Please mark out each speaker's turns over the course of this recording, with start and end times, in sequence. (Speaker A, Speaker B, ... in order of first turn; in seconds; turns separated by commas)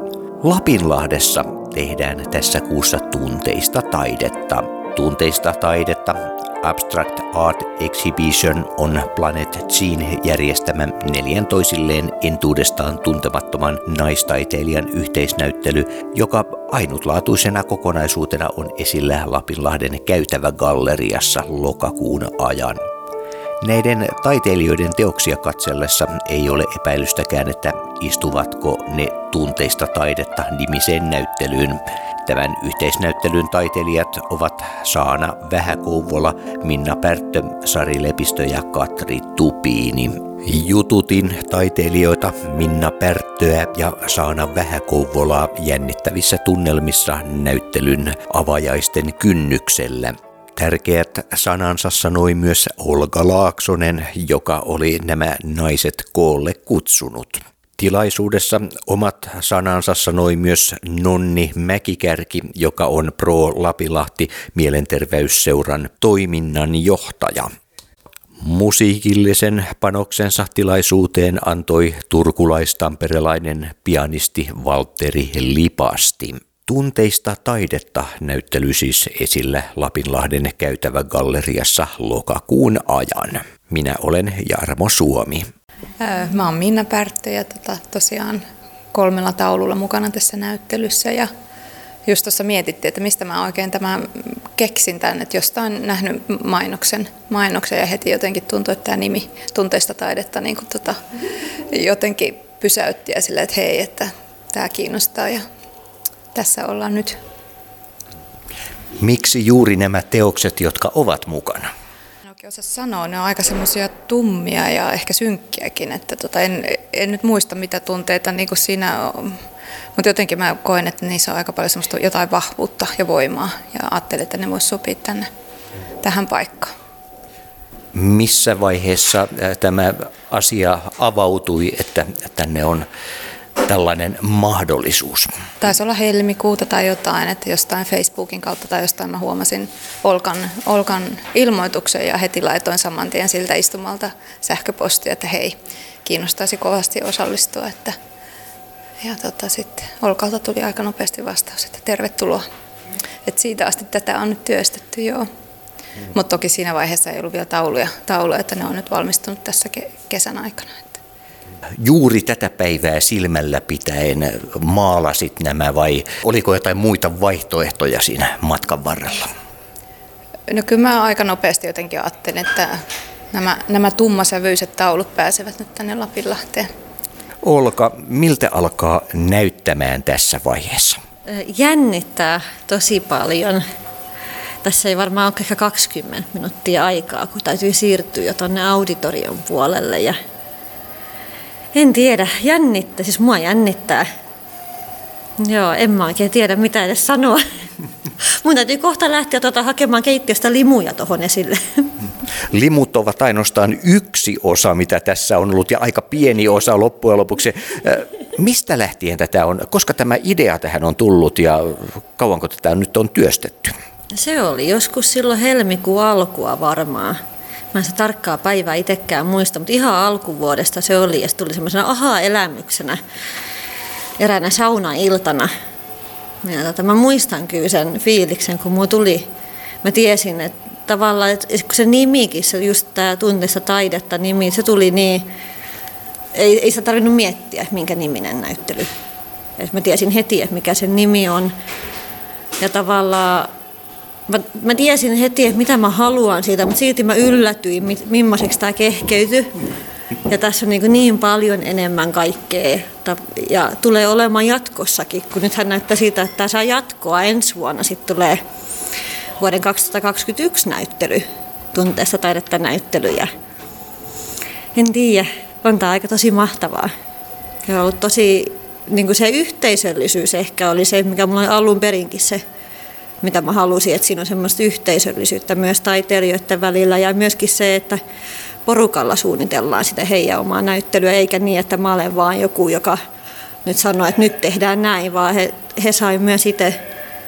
Speaker A: 0.4-22.8, Speaker A: 23.6-67.5, Speaker A: 68.4-85.4, Speaker B: 86.0-91.3, Speaker B: 92.0-101.0, Speaker B: 101.7-105.4, Speaker B: 106.3-107.2, Speaker A: 109.0-111.7, Speaker B: 112.2-119.4, Speaker B: 120.0-125.3, Speaker B: 126.0-126.7, Speaker A: 127.9-132.9, Speaker A: 133.6-135.3, Speaker B: 135.6-147.9, Speaker B: 149.0-152.4, Speaker B: 153.2-155.3, Speaker B: 156.1-161.0, Speaker A: 161.8-169.3, Speaker B: 170.5-176.7, Speaker A: 177.4-181.0, Speaker C: 181.3-183.6, Speaker C: 184.6-190.2, Speaker C: 191.7-194.1, Speaker C: 195.4-197.4, Speaker C: 198.4-201.9, Speaker A: 202.5-213.7, Speaker C: 214.1-217.2, Speaker C: 217.7-223.0, Speaker C: 224.2-225.5, Speaker C: 226.4-229.3, Speaker C: 229.8-235.3, Speaker C: 236.3-238.9, Speaker C: 239.6-241.5, Speaker C: 242.6-243.5, Speaker C: 244.3-249.5, Speaker C: 250.3-258.4, Speaker C: 259.4-263.3, Speaker C: 264.7-266.9, Speaker C: 267.6-272.4, Speaker C: 273.2-278.0, Speaker C: 278.6-283.0, Speaker C: 283.6-286.8